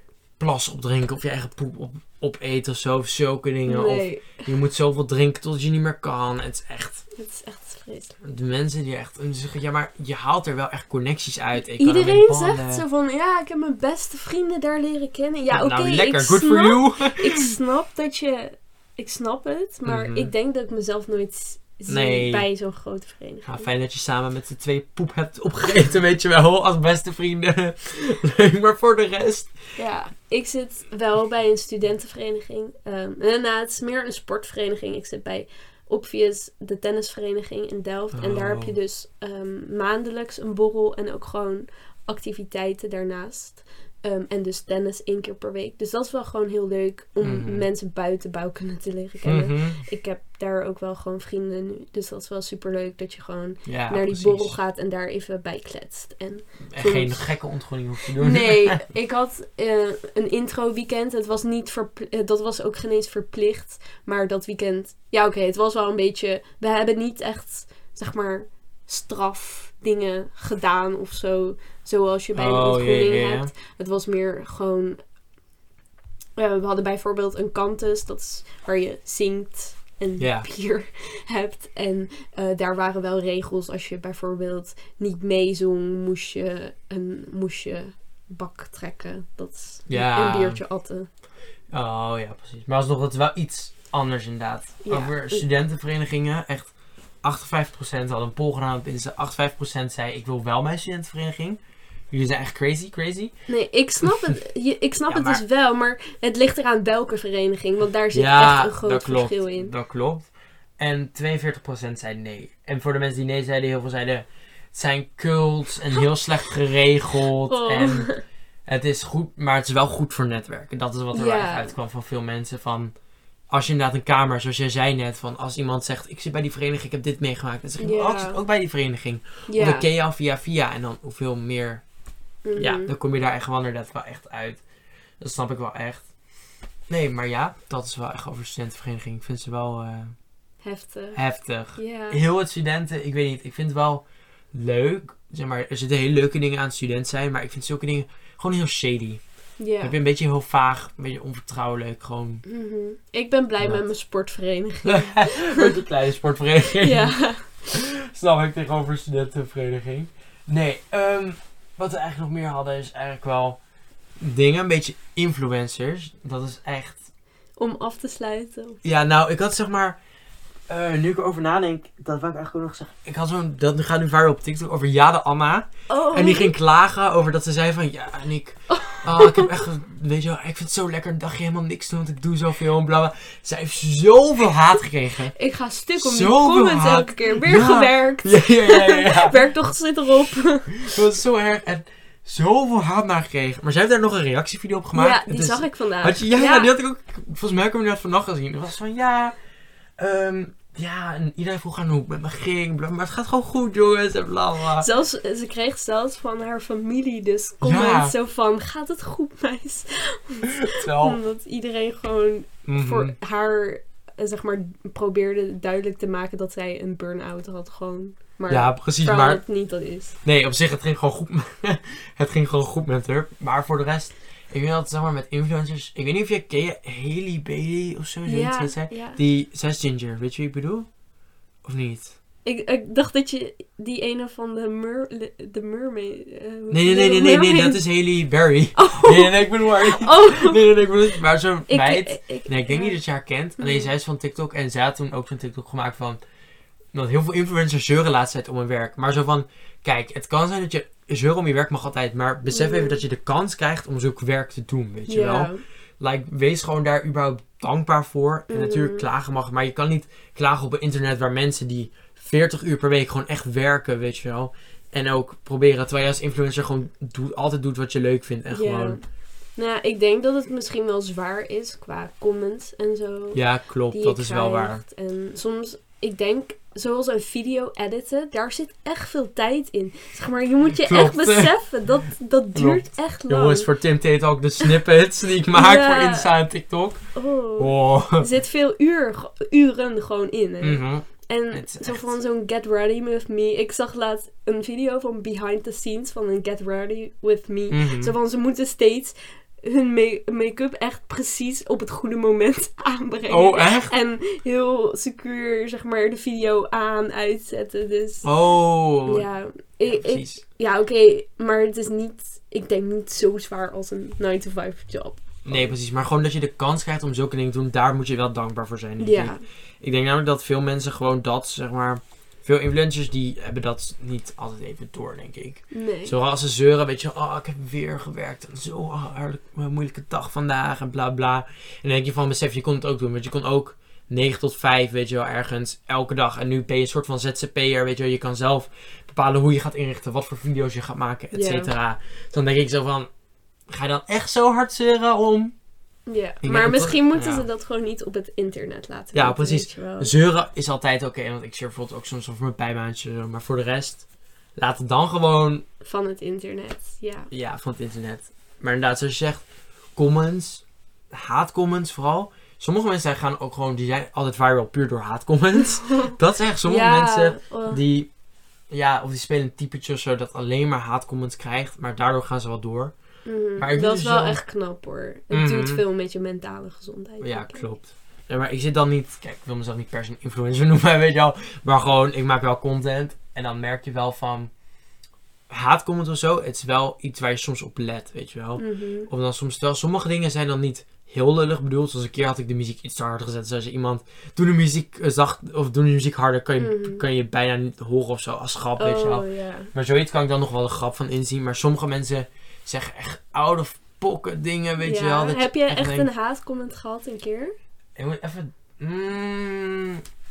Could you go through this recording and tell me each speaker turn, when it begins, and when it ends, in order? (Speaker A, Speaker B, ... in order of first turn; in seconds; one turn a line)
Speaker A: 0.4-7.0
Speaker B: 3.6-4.5
Speaker B: 7.2-8.1
Speaker A: 8.2-12.8
Speaker B: 11.7-23.6
Speaker A: 15.5-17.5
Speaker A: 19.9-20.3
Speaker A: 21.9-22.5
Speaker A: 23.4-29.6
Speaker B: 29.8-57.4
Speaker A: 38.1-38.8
Speaker A: 47.2-47.6
Speaker A: 49.2-49.8
Speaker A: 53.6-54.6
Speaker A: 56.7-58.8
Speaker B: 58.2-75.0
Speaker A: 72.3-73.5
Speaker B: 76.3-91.1
Speaker A: 80.2-80.5
Speaker A: 89.9-90.6
Speaker A: 91.7-101.6
Speaker B: 94.8-95.4
Speaker A: 102.1-103.3
Speaker B: 103.5-109.7
Speaker A: 104.0-104.3
Speaker A: 105.1-105.4
Speaker A: 108.1-118.1
Speaker B: 117.5-118.2
Speaker A: 118.7-122.9
Speaker B: 121.1-121.7
Speaker A: 123.5-131.8
Speaker B: 127.8-128.4
Speaker B: 129.5-129.9
Speaker B: 132.4-132.9
Speaker A: 132.6-134.6
Speaker A: 135.2-136.1
Speaker A: 136.9-140.1
Speaker B: 140.6-141.2
Speaker A: 141.1-149.2
Speaker B: 141.7-142.2
Speaker B: 149.6-149.9
Speaker A: 149.8-152.4
Speaker B: 152.5-155.7
Speaker A: 154.8-163.6
Speaker B: 156.8-157.5
Speaker A: 164.2-167.1
Speaker B: 167.6-168.8
Speaker A: 168.8-170.0
Speaker A: 170.7-185.3
Speaker B: 175.9-176.5
Speaker B: 178.7-179.5
Speaker B: 185.3-190.9
Speaker A: 186.0-189.4
Speaker A: 190.8-199.3
Speaker B: 194.9-196.7
Speaker A: 200.0-204.9
Speaker B: 204.8-220.1
Speaker A: 207.6-208.1
Speaker A: 210.5-211.2
Speaker A: 212.7-213.2
Speaker A: 218.5-219.5
Speaker A: 220.2-230.9
Speaker B: 228.3-229.2
Speaker A: 231.6-232.2
Speaker B: 232.4-237.9
Speaker A: 236.7-246.2
Speaker B: 238.8-240.7
Speaker B: 241.7-243.0
Speaker B: 243.6-243.9
Speaker A: 246.9-269.0
Speaker B: 252.5-253.0
Speaker B: 255.1-255.6
Speaker B: 258.5-259.1
Speaker B: 268.5-269.0
Speaker B: 269.6-283.7
Speaker A: 273.3-274.8
Speaker A: 280.8-281.5
Speaker A: 282.5-288.3
Speaker B: 285.5-286.3
Speaker B: 287.1-308.3
Speaker A: 290.6-292.1
Speaker A: 297.7-298.1
Speaker A: 303.3-303.9
Speaker A: 308.2-309.3
Speaker B: 309.0-315.7
Speaker A: 309.8-310.4
Speaker A: 315.4-343.1
Speaker B: 319.0-319.4
Speaker B: 325.7-326.1
Speaker B: 341.3-341.7
Speaker A: 343.7-345.5
Speaker B: 346.1-350.1
Speaker A: 346.4-347.4
Speaker A: 349.1-355.6
Speaker B: 355.8-357.3
Speaker A: 357.3-368.1
Speaker B: 365.8-366.1
Speaker B: 366.6-367.8
Speaker A: 368.7-372.9
Speaker B: 373.2-377.7
Speaker A: 373.6-374.4
Speaker A: 375.3-375.8
Speaker A: 377.2-384.5
Speaker A: 385.5-406.1
Speaker B: 388.6-389.1
Speaker B: 396.6-397.0
Speaker B: 398.8-399.7
Speaker B: 404.8-407.5
Speaker A: 407.9-410.0